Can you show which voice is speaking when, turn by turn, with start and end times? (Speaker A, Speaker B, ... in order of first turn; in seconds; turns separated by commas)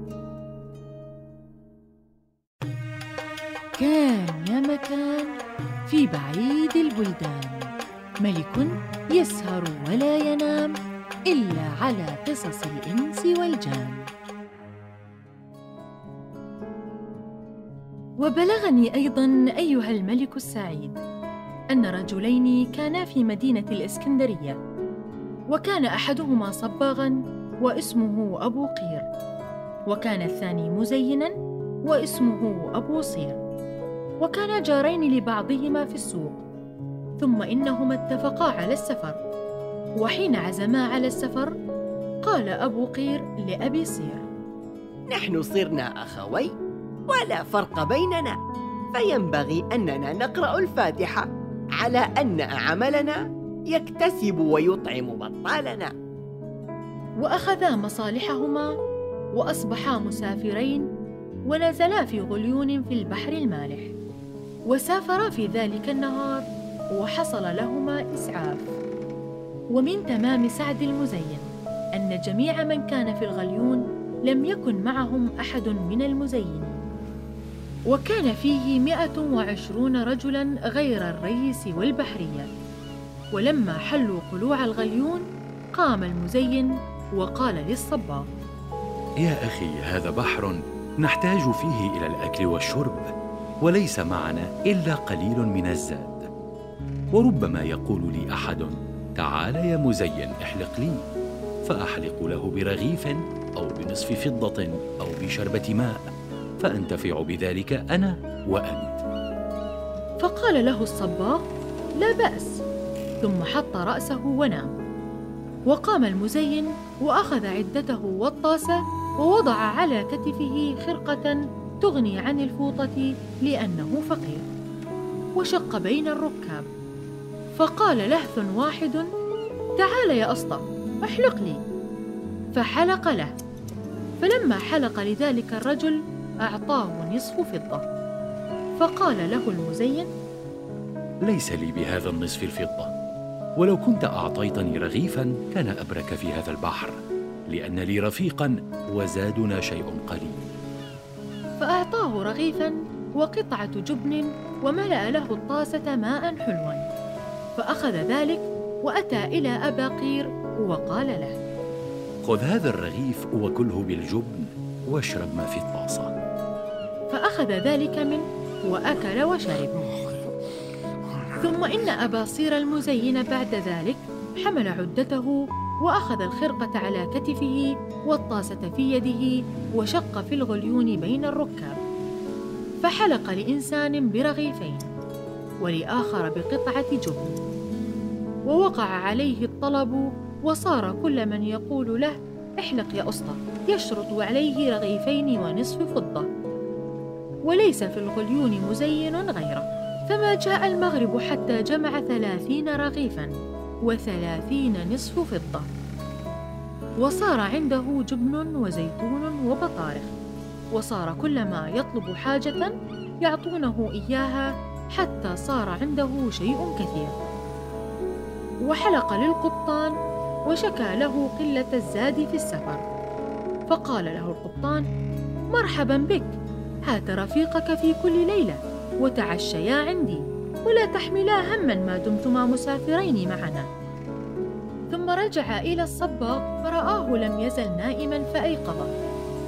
Speaker A: 3.8-5.3, Speaker A: 5.9-7.7, Speaker A: 8.2-10.8, Speaker A: 11.3-14.1, Speaker A: 18.2-21.0, Speaker A: 21.7-24.6, Speaker A: 25.5-29.1, Speaker A: 29.9-31.3, Speaker A: 31.8-33.4, Speaker A: 34.2-36.4, Speaker A: 37.2-39.2, Speaker A: 40.0-41.5, Speaker A: 42.2-44.3, Speaker B: 45.1-46.5, Speaker B: 47.1-48.4, Speaker B: 48.9-55.9, Speaker A: 57.2-58.7, Speaker A: 59.3-60.9, Speaker A: 61.5-63.9, Speaker A: 64.7-68.7, Speaker A: 69.7-76.8, Speaker A: 77.9-82.5, Speaker A: 83.3-85.2, Speaker A: 85.8-88.2, Speaker C: 89.2-93.1, Speaker C: 93.6-96.3, Speaker C: 97.1-101.0, Speaker C: 101.7-106.0, Speaker C: 106.6-109.0, Speaker A: 110.2-111.4, Speaker A: 112.0-112.6, Speaker A: 113.2-114.7, Speaker A: 115.7-124.5, Speaker A: 125.4-126.7, Speaker A: 127.5-129.0, Speaker A: 129.8-131.6, Speaker A: 132.5-133.3, Speaker A: 134.2-137.8, Speaker A: 138.8-140.1, Speaker C: 141.2-142.9, Speaker C: 143.6-150.5, Speaker A: 151.6-156.8, Speaker A: 157.6-161.4, Speaker C: 162.2-166.1, Speaker A: 167.1-169.7, Speaker A: 171.4-181.8, Speaker A: 182.8-184.9, Speaker A: 185.6-187.4, Speaker A: 188.5-196.3, Speaker A: 197.4-203.3, Speaker A: 203.8-205.7, Speaker A: 207.0-210.1, Speaker A: 210.7-212.7, Speaker A: 213.2-217.2, Speaker A: 218.6-219.9, Speaker A: 220.5-222.8, Speaker A: 223.7-224.8, Speaker A: 225.5-226.3, Speaker A: 226.9-233.7, Speaker A: 234.9-238.9